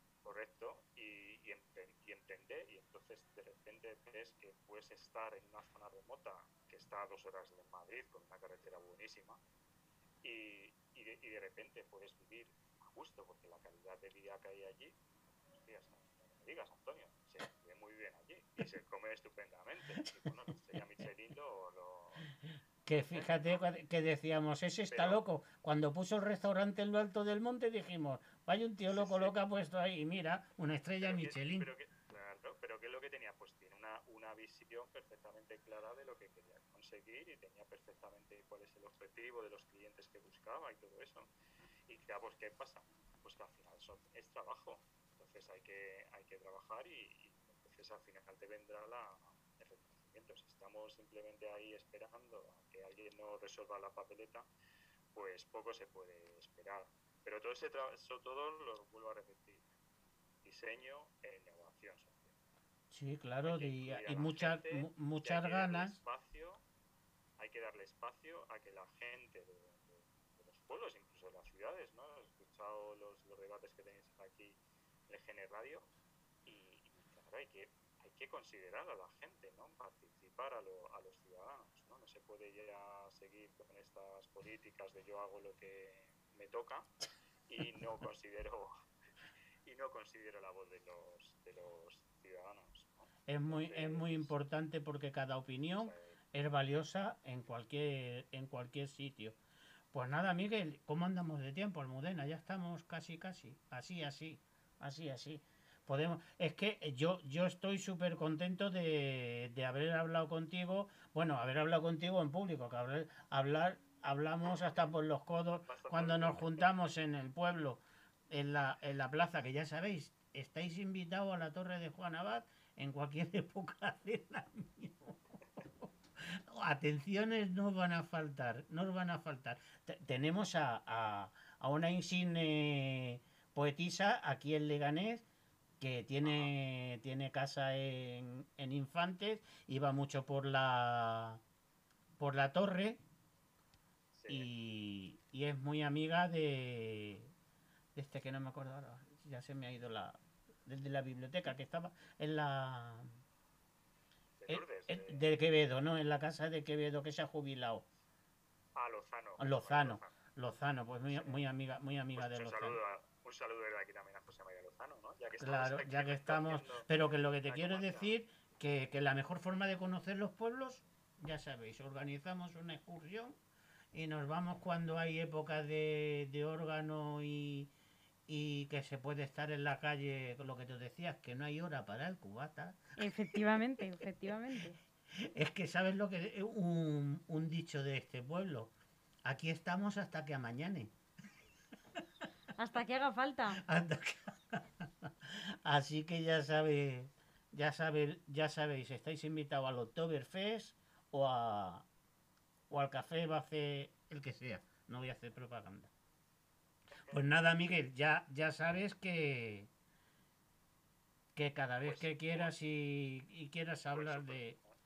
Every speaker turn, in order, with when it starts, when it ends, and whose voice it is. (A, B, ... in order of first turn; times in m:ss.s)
0:00.2-0:09.4 A
0:10.2-0:22.3 A
0:22.9-0:31.7 B
0:22.9-0:23.6 A
0:24.9-0:25.2 A
0:28.9-0:29.4 A
0:31.0-0:41.3 A
0:41.9-0:54.5 A
0:55.1-0:59.7 A
1:00.4-1:02.4 A
1:02.9-1:06.0 B
1:03.4-1:06.6 A
1:07.4-1:14.6 A
1:15.1-1:15.9 A
1:16.5-1:26.9 A
1:27.5-1:28.7 A
1:29.6-1:34.3 A
1:33.3-1:39.4 B
1:35.8-1:36.2 A
1:39.9-2:05.2 B
1:55.6-1:56.8 A
2:05.8-2:15.2 B
2:15.8-2:21.4 B
2:16.2-2:16.5 A
2:22.2-2:23.0 B
2:24.1-2:24.5 A
2:24.3-2:27.3 B
2:28.0-2:33.1 B
2:34.4-2:35.3 A
2:34.5-2:37.9 B
2:38.8-2:40.2 A
2:39.4-2:42.8 B
2:41.1-2:41.4 A
2:42.2-2:46.9 A
2:45.4-2:53.4 B
2:47.4-2:48.2 A
2:53.9-2:57.7 B
2:58.3-3:03.6 B
3:03.0-3:04.8 C
3:05.2-3:08.7 B
3:09.2-3:10.9 B
3:12.6-3:13.6 C
3:13.5-3:21.9 B
3:22.7-3:25.9 B
3:27.1-3:29.7 B
3:31.4-3:34.6 B
3:31.8-3:32.5 A
3:33.9-3:34.8 A